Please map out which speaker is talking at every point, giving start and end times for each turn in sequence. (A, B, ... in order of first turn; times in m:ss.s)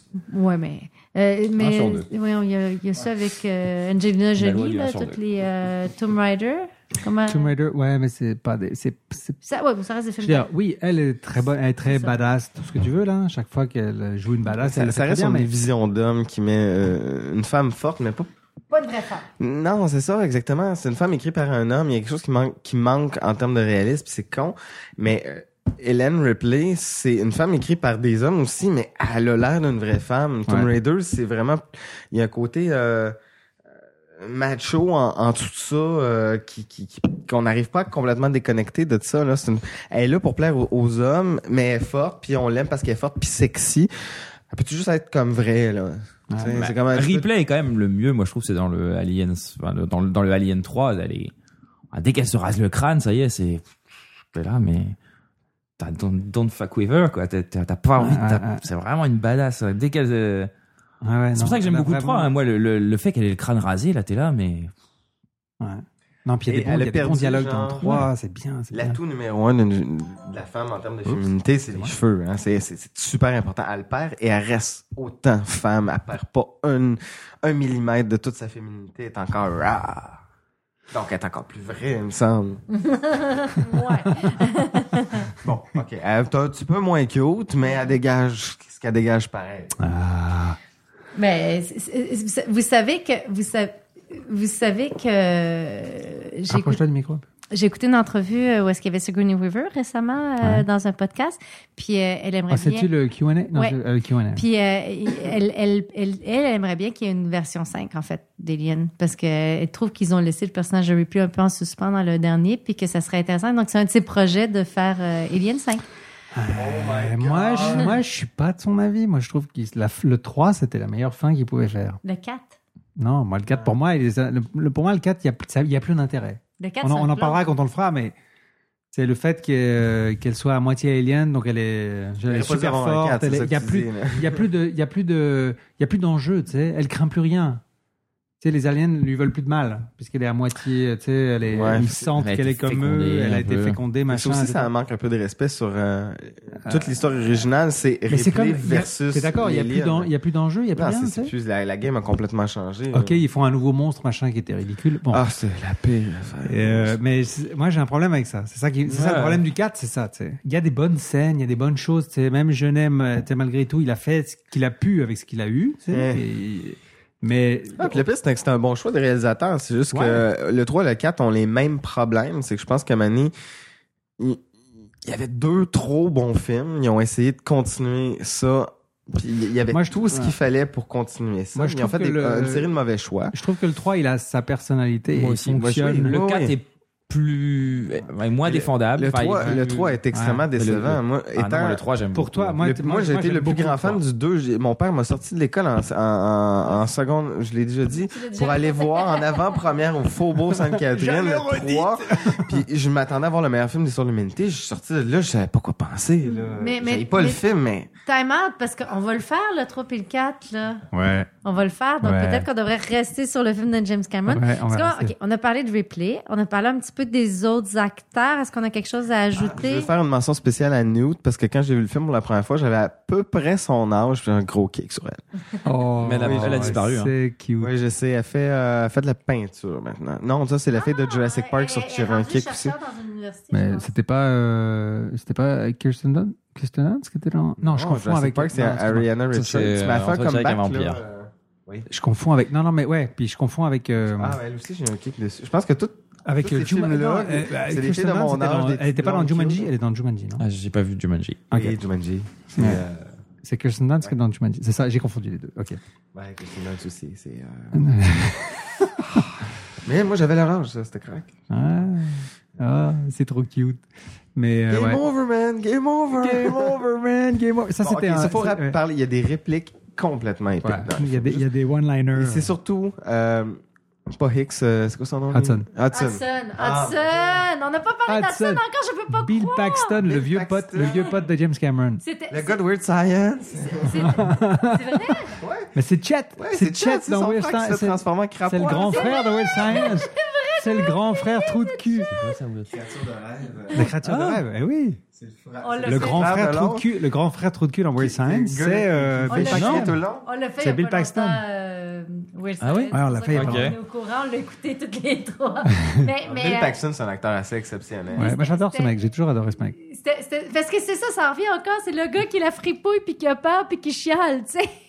0:00.3-0:07.5 A
0:01.6-0:02.1 B
0:04.4-0:05.2 B
0:07.3-0:09.4 C
0:09.4-0:10.5 A
0:10.2-0:15.5 C
0:11.8-0:12.3 A
0:14.5-0:18.3 D
0:18.7-0:19.2 A
0:19.4-0:33.2 D
0:34.1-0:43.9 D
0:44.5-0:47.3 D
0:46.5-0:51.3 B
0:51.9-0:53.7 B
0:54.3-0:55.0 B
0:55.8-1:00.5 B
0:58.0-0:58.6 C
1:01.0-1:02.3 C
1:01.3-1:04.7 B
1:05.6-1:09.0 C
1:06.5-1:08.1 D
1:08.7-1:20.2 D
1:11.1-1:11.9 C
1:20.9-1:22.6 D
1:22.7-1:25.3 A
1:25.4-1:29.7 D
1:29.8-1:30.6 C
1:31.2-1:36.8 A
1:36.5-1:37.2 C
1:37.5-1:42.9 A
1:42.5-1:44.4 C
1:44.3-1:55.8 A
1:56.3-2:02.0 C
1:56.5-1:58.0 D
2:02.0-2:02.5 A
2:03.0-2:08.1 C
2:03.5-2:03.7 D
2:06.6-2:07.5 A
2:08.9-2:17.6 C
2:12.2-2:14.4 D
2:18.4-2:24.7 C
2:21.5-2:22.1 D
2:22.2-2:23.8 B
2:24.1-2:30.1 D
2:26.6-2:26.9 C
2:28.1-2:31.3 C
2:30.7-2:33.2 D
2:32.9-2:35.2 C
2:35.1-2:37.0 D
2:36.4-2:48.0 C
2:38.9-2:39.4 B
2:45.9-2:46.2 D
2:47.8-2:53.3 D
2:49.9-2:50.2 C
2:55.0-3:03.3 D
2:59.7-3:00.3 C
3:01.5-3:02.7 C
3:03.3-3:06.2 C
3:05.1-3:10.0 B
3:06.0-3:06.5 D
3:08.4-3:11.8 D
3:09.4-3:10.4 C
3:10.6-3:12.6 B
3:12.1-3:14.0 C
3:12.6-3:27.9 D
3:18.0-3:19.6 A
3:20.5-3:22.6 C
3:26.4-3:27.4 A
3:28.0-3:30.8 A
3:30.9-3:31.3 C
3:31.4-3:39.9 A
3:32.0-3:32.4 C
3:34.3-3:35.1 C
3:39.3-3:45.2 D
3:45.6-3:47.7 C
3:46.0-3:47.1 B
3:46.2-3:46.8 D
3:47.6-3:52.8 D
3:50.7-3:53.9 A
3:53.5-3:59.1 C
3:57.6-4:01.9 D
3:59.3-4:01.0 B
4:01.9-4:04.4 C
4:04.0-4:09.7 D
4:06.2-4:10.4 C
4:10.4-4:11.4 B
4:11.5-4:11.8 C
4:11.5-4:13.1 D
4:12.5-4:12.8 C
4:13.4-4:15.8 C
4:16.1-4:17.8 D
4:17.7-4:18.6 C
4:18.8-4:19.2 D
4:19.8-4:21.3 D
4:21.5-4:23.8 C
4:24.4-4:25.0 C
4:24.7-4:26.8 D
4:26.2-4:28.8 C
4:27.8-4:31.5 D
4:30.6-4:32.5 C
4:32.1-4:37.4 D
4:35.3-4:35.7 C
4:35.9-4:40.0 A
4:38.1-4:42.0 C
4:40.0-4:40.9 D
4:42.0-4:42.6 A
4:42.3-4:44.2 D
4:43.8-4:45.4 A
4:44.0-4:45.1 C
4:45.4-4:45.7 D
4:45.7-4:52.1 C
4:46.4-4:49.2 D
4:48.7-4:52.2 A
4:52.1-4:52.7 B
4:52.6-4:53.9 D
4:53.7-4:55.0 C
4:54.0-4:54.4 B
4:55.1-4:56.9 D
4:55.6-4:56.3 A
4:55.8-5:00.0 C
4:58.0-5:00.3 D
4:59.3-4:59.7 A
4:59.5-4:59.9 B
5:00.2-5:06.7 A
5:00.6-5:01.4 C
5:02.6-5:03.8 B
5:02.9-5:03.7 C
5:06.2-5:08.4 D
5:08.1-5:09.0 A
5:08.2-5:09.7 C
5:09.8-5:14.7 A